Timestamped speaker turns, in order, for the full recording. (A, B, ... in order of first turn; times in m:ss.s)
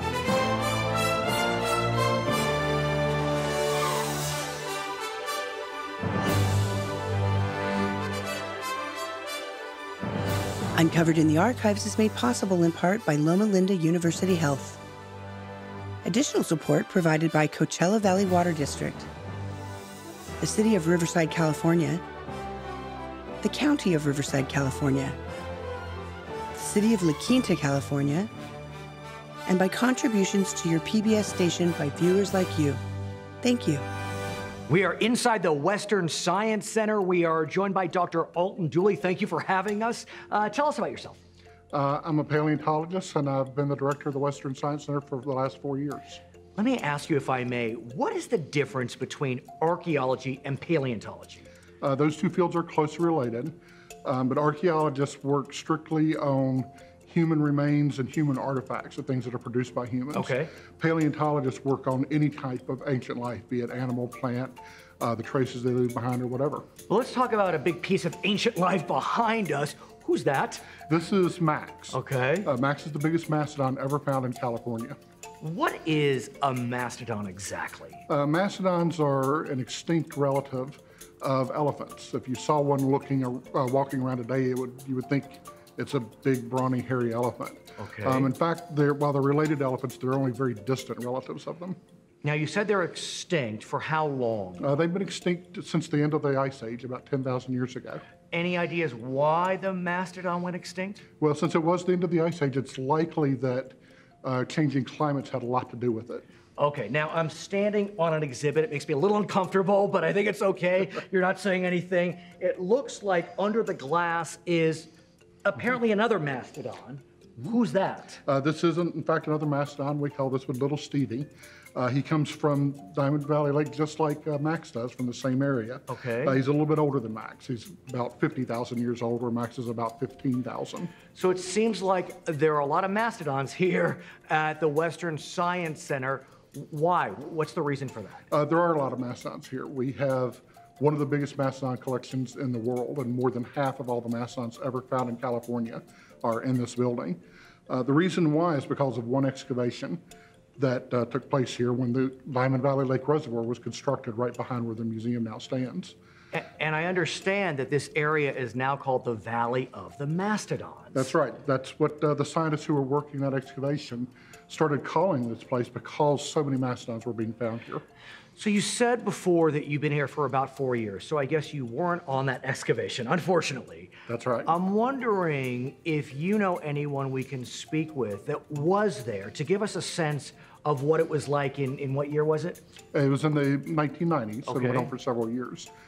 0:10.8-0:14.8 A
0:16.0-0:19.1 A
0:20.4-0:22.0 A
0:23.4-0:25.2 A
0:26.5-0:28.3 A
0:29.5-0:32.8 A
0:33.4-0:33.9 A
0:34.7-0:41.2 B
0:41.7-0:46.2 C
0:46.6-0:51.4 B
0:51.8-1:06.7 C
1:00.1-1:00.5 B
1:06.9-1:10.7 B
1:10.8-1:15.0 C
1:11.9-1:12.5 B
1:15.4-1:18.0 B
1:18.1-1:31.8 C
1:27.8-1:28.3 B
1:32.2-1:34.7 B
1:34.6-1:38.0 C
1:38.3-1:41.0 B
1:41.2-1:46.3 C
1:46.6-1:54.9 B
1:55.4-1:58.2 B
1:58.3-2:10.9 C
2:05.9-2:06.4 B
2:11.1-2:18.3 B
2:18.3-2:30.0 C
2:30.6-2:36.0 C
2:36.3-2:41.1 B
2:41.0-2:47.8 C
2:48.4-2:53.9 B
2:54.1-2:54.5 C
2:54.5-3:02.6 B
3:02.9-3:05.7 C
3:04.5-3:04.9 B